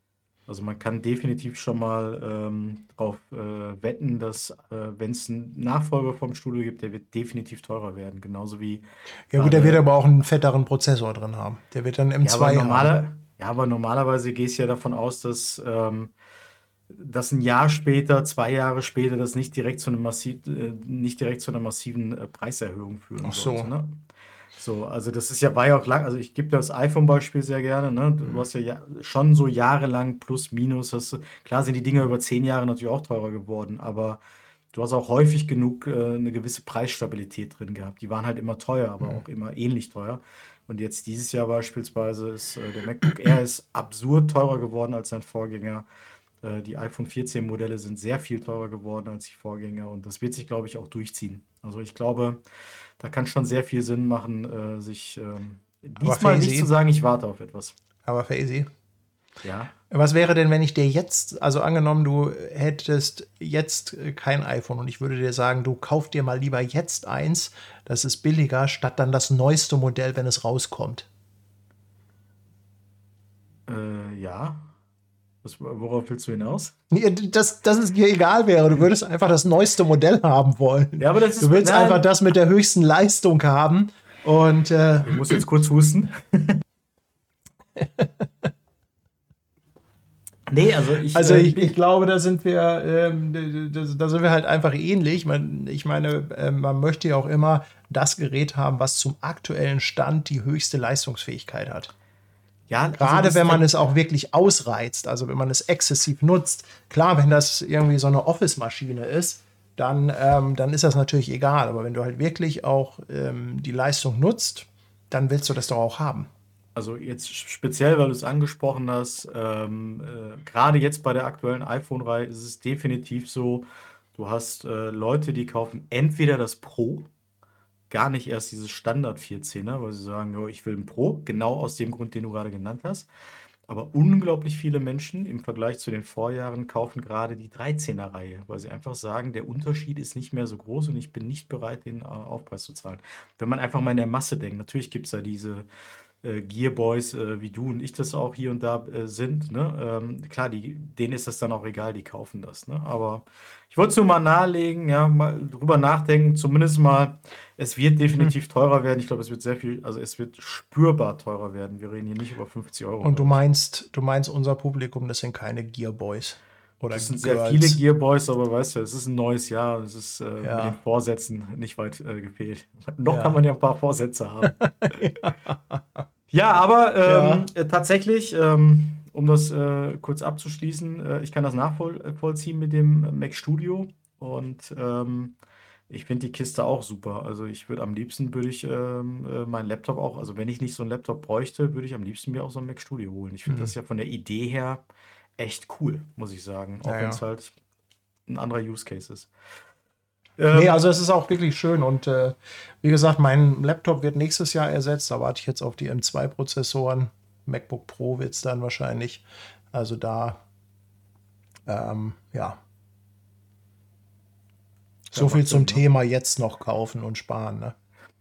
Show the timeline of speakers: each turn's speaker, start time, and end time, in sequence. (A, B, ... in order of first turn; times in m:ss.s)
0:00.5-0:09.9 A
0:09.3-0:13.0 B
0:12.2-0:16.1 A
0:16.9-0:24.0 A
0:23.2-0:23.7 B
0:24.6-0:34.2 A
0:34.7-0:45.9 A
0:46.4-0:52.4 A
0:53.0-0:57.8 A
0:56.0-0:56.7 B
0:58.0-0:58.7 B
0:59.4-0:59.7 A
0:59.9-1:11.1 B
1:13.7-1:14.7 A
1:15.4-1:16.8 A
1:16.9-1:25.4 B
1:21.0-1:22.0 A
1:25.0-1:26.6 A
1:27.8-1:28.5 B
1:30.5-1:31.8 A
1:31.1-1:41.9 B
1:42.7-1:43.7 A
1:43.0-1:56.3 B
1:56.8-2:07.1 A
2:07.9-2:13.1 A
2:13.7-2:25.7 A
2:26.2-2:43.4 A
2:43.0-2:47.8 B
2:46.9-2:54.6 A
2:50.4-2:50.8 B
2:53.1-2:53.4 B
2:54.5-2:56.0 B
2:56.3-3:05.4 A
2:57.1-2:57.5 B
3:05.9-3:14.8 A
3:13.5-3:13.7 B
3:15.4-3:17.6 A
3:16.8-3:17.2 B
3:18.3-3:19.3 A
3:20.4-3:20.8 A
3:20.5-3:30.4 B
3:31.7-3:32.6 B
3:35.1-3:37.8 B
3:35.1-3:35.8 A